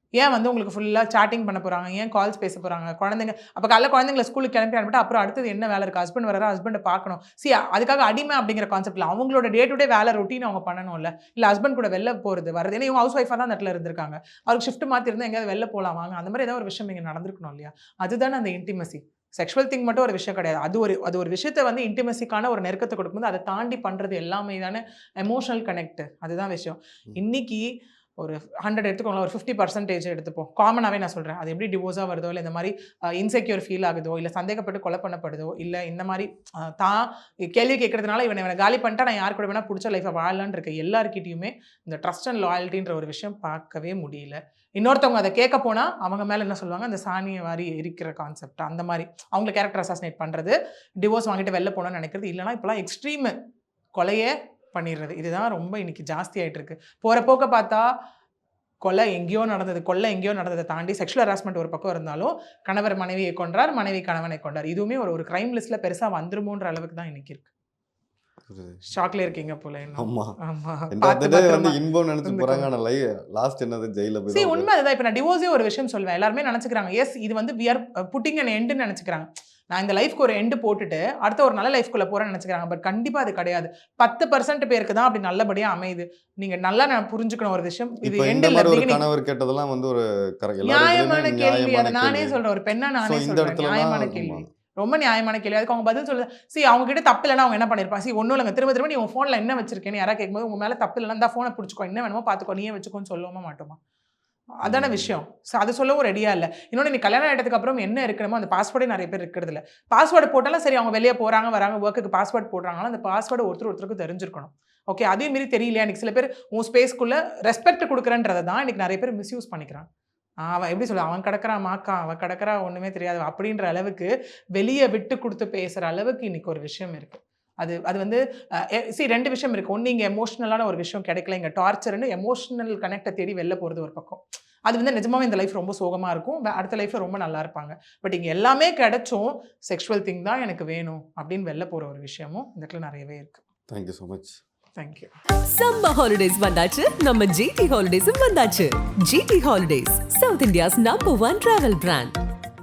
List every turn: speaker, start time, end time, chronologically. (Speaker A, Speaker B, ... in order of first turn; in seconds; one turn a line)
Speaker A: 0.2-53.3
Speaker A: 54.0-57.9
Speaker A: 58.8-67.5
Speaker B: 68.5-68.9
Speaker A: 68.9-72.7
Speaker B: 70.0-70.4
Speaker B: 70.9-74.7
Speaker A: 74.3-89.0
Speaker B: 88.0-92.4
Speaker A: 90.6-103.8
Speaker B: 93.0-94.5
Speaker A: 104.6-119.9
Speaker B: 104.6-105.2
Speaker A: 120.4-143.4
Speaker B: 143.7-144.4
Speaker A: 144.8-145.1
Speaker C: 145.5-152.1